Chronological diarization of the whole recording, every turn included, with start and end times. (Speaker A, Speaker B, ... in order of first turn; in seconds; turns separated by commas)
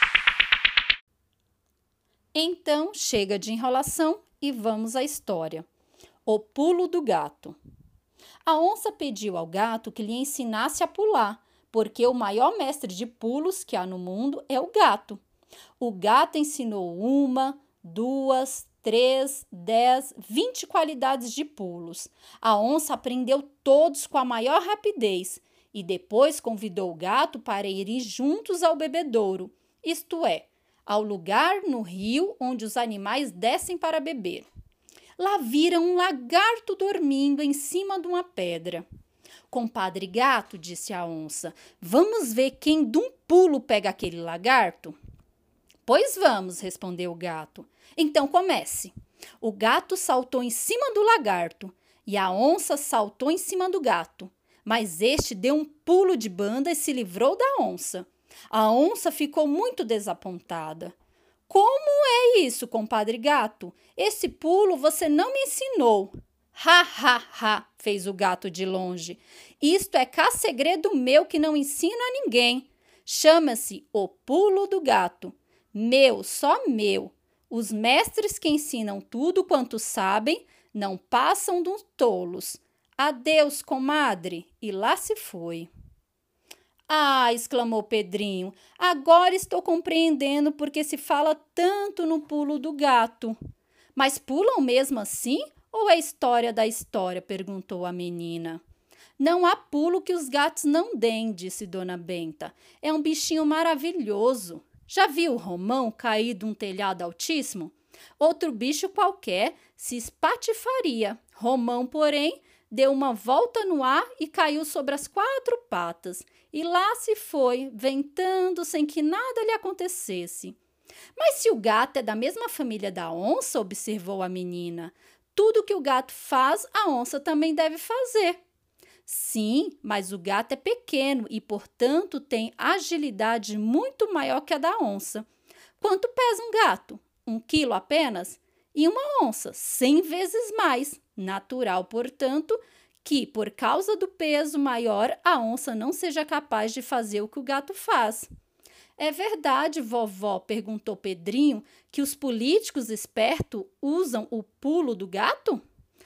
Speaker A: 2.3-5.7, Speaker A: 6.2-7.6, Speaker A: 8.4-15.2, Speaker A: 15.8-34.5, Speaker A: 35.2-38.8, Speaker A: 39.5-45.0, Speaker A: 45.9-60.9, Speaker A: 61.5-85.7, Speaker A: 86.9-93.4, Speaker A: 93.9-98.6, Speaker A: 99.2-120.6, Speaker A: 121.2-128.4, Speaker A: 129.1-135.3, Speaker A: 135.8-148.3, Speaker A: 149.0-155.6